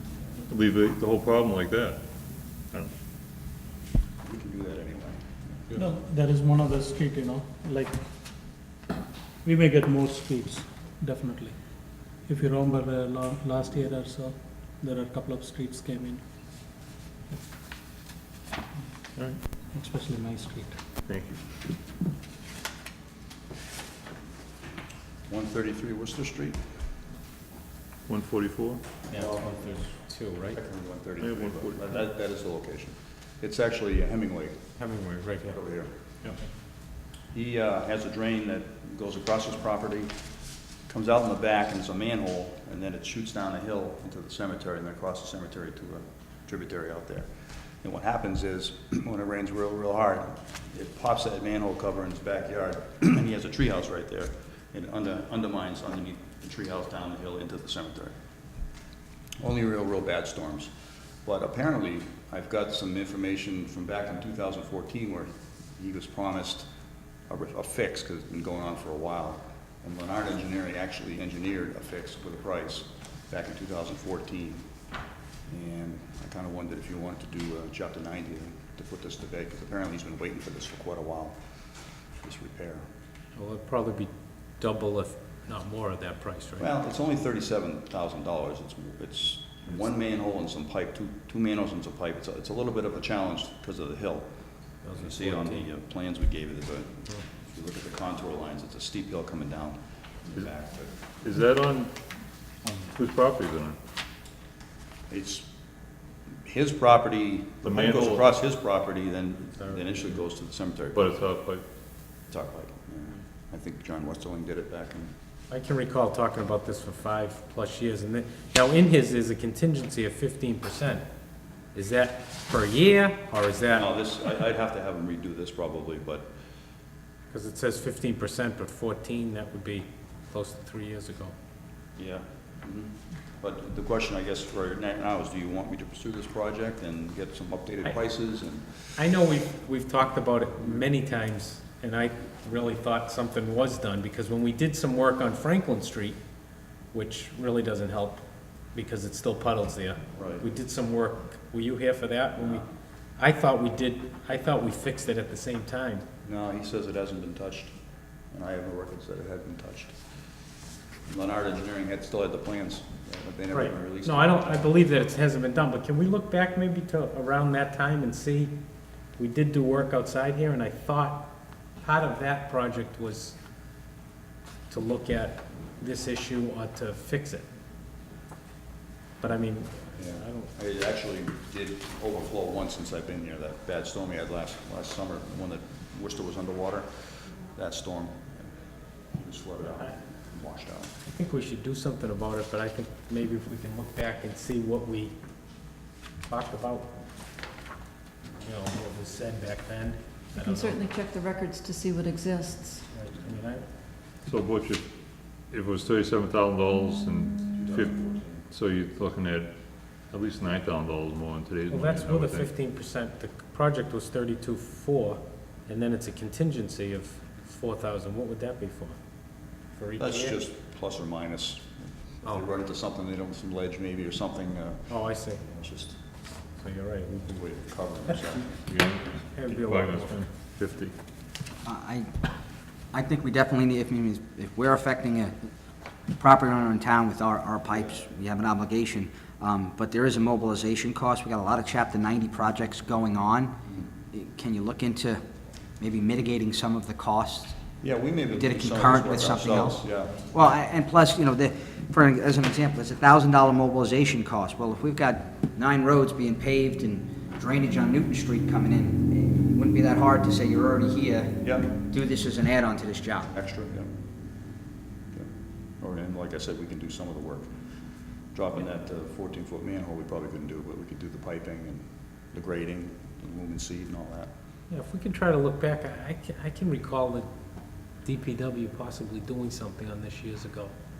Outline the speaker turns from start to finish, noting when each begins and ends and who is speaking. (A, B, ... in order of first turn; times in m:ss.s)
0:00.5-0:02.0 A
0:04.2-0:05.7 B
0:05.7-0:08.0 C
0:09.4-0:11.6 C
0:12.2-0:16.2 C
0:19.7-0:20.7 C
0:21.0-0:21.4 A
0:25.3-0:26.6 B
0:28.1-0:28.8 A
0:29.1-0:30.6 D
0:29.1-0:29.5 B
0:30.5-0:34.6 B
0:31.2-0:31.9 A
0:34.8-0:35.6 D
0:35.5-0:35.9 B
0:37.3-0:40.1 B
0:40.9-0:47.3 B
0:47.8-0:58.1 B
0:59.4-1:00.7 B
1:01.2-1:06.7 B
1:07.3-1:14.6 B
1:15.5-1:21.4 B
1:22.2-1:22.8 B
1:23.4-1:26.7 D
1:26.6-1:34.3 B
1:34.8-1:35.6 D
1:34.9-1:40.9 B
1:41.2-1:41.9 A
1:42.9-1:43.8 A
1:45.1-1:45.4 B
1:46.4-1:51.1 B
1:47.6-1:48.3 A
1:50.9-1:51.6 A
1:52.3-1:55.1 B
1:55.5-2:01.0 D
2:01.7-2:03.9 D
2:03.7-2:06.3 B
2:07.3-2:11.3 D
2:12.0-2:19.0 B
2:19.0-2:26.2 D
2:26.9-2:32.6 D
2:30.1-2:30.4 B
2:33.2-2:36.0 D
2:36.2-2:37.7 B
2:38.3-2:39.9 B
2:41.1-2:44.6 B
2:43.5-2:48.5 D
2:49.2-2:53.4 D
2:54.7-2:57.5 D
2:59.2-3:00.5 D
3:00.0-3:08.5 B
3:09.1-3:10.9 B
3:11.1-3:15.1 D
3:16.2-3:16.9 D
3:18.4-3:20.8 D
3:20.3-3:22.8 E
3:22.9-3:23.6 D
3:24.2-3:24.8 A
3:25.5-3:29.5 A
3:27.5-3:28.4 B
3:30.0-3:32.5 A
3:31.7-3:39.0 D
3:39.7-3:40.4 D
3:40.0-3:46.0 B
3:44.9-3:45.4 D
3:46.5-3:47.4 D
3:47.3-3:48.6 B
3:48.7-3:50.9 A
3:49.3-3:50.3 D
3:51.6-3:52.1 F
3:52.9-3:55.3 F
3:56.2-4:03.5 F
4:04.1-4:05.2 F
4:05.8-4:07.6 F
4:07.8-4:10.2 B
4:08.3-4:23.3 F
4:21.4-4:21.7 B
4:23.3-4:23.9 B
4:25.8-4:27.5 B
4:28.3-4:34.3 B
4:34.7-4:37.3 D
4:38.0-4:40.7 D